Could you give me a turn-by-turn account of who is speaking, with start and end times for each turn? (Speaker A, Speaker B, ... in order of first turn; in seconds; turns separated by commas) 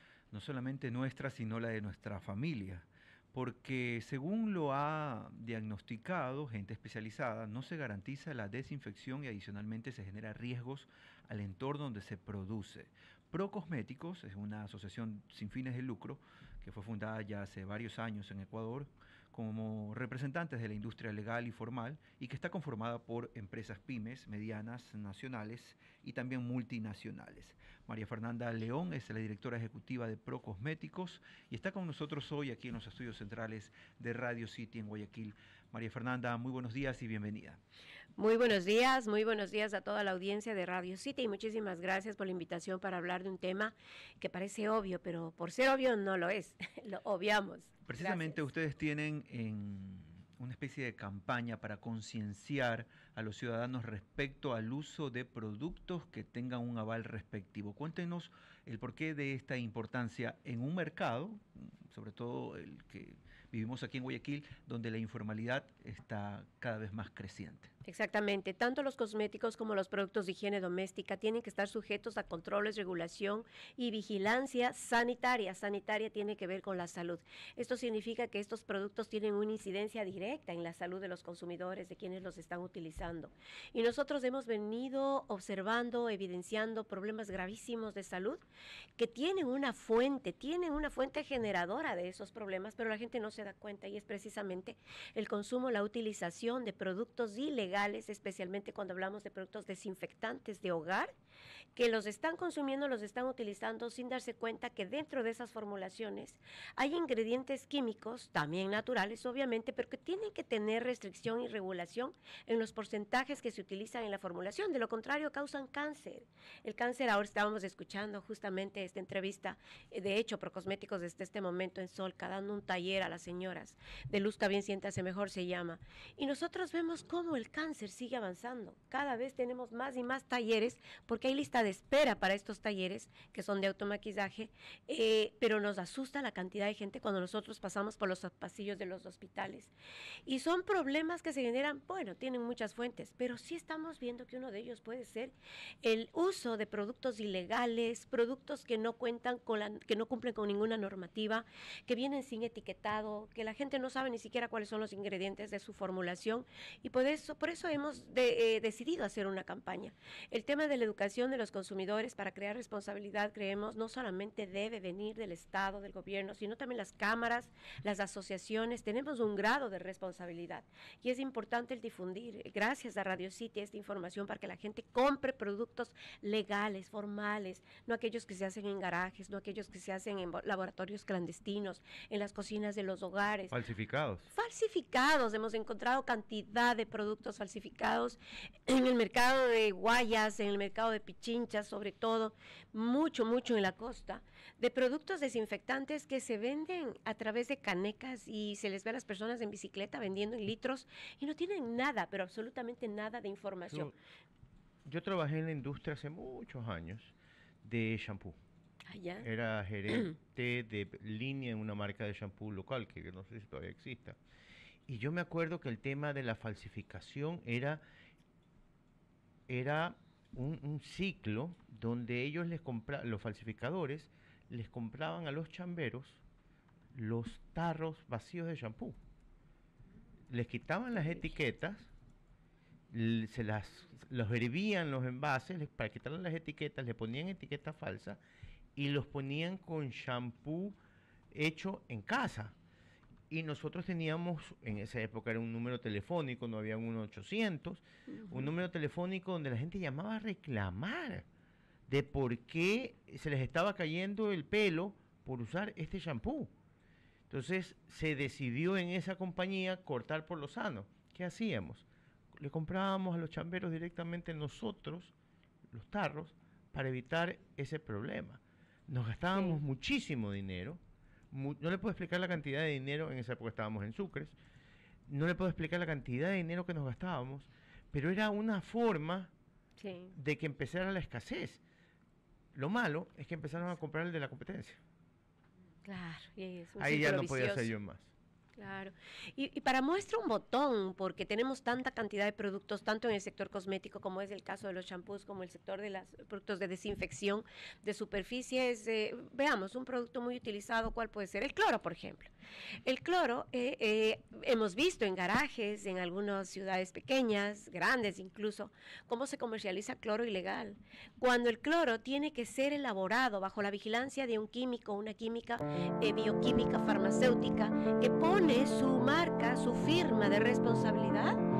Speaker A: 0.3-37.6, Speaker B: 38.2-48.4, Speaker A: 47.9-67.7, Speaker B: 67.8-88.4, Speaker B: 89.0-101.1, Speaker B: 101.8-139.7, Speaker B: 140.2-183.6, Speaker C: 183.5-184.3, Speaker B: 184.3-203.9, Speaker C: 204.8-208.4, Speaker B: 208.9-209.3, Speaker C: 209.2-214.2, Speaker C: 214.9-217.8, Speaker C: 219.5-226.2, Speaker C: 226.9-229.0, Speaker C: 230.3-231.9, Speaker C: 232.9-238.2, Speaker C: 238.8-240.8, Speaker C: 241.3-242.5, Speaker C: 243.3-251.2, Speaker B: 248.2-248.5, Speaker C: 251.9-256.5, Speaker C: 257.3-265.1, Speaker C: 265.7-270.8, Speaker B: 269.3-269.6, Speaker C: 271.3-274.4, Speaker C: 275.1-279.3, Speaker B: 279.8-280.1, Speaker C: 280.1-281.6, Speaker C: 282.5-284.8, Speaker B: 285.8-287.7, Speaker C: 286.8-288.1, Speaker B: 288.6-302.3, Speaker B: 302.8-321.4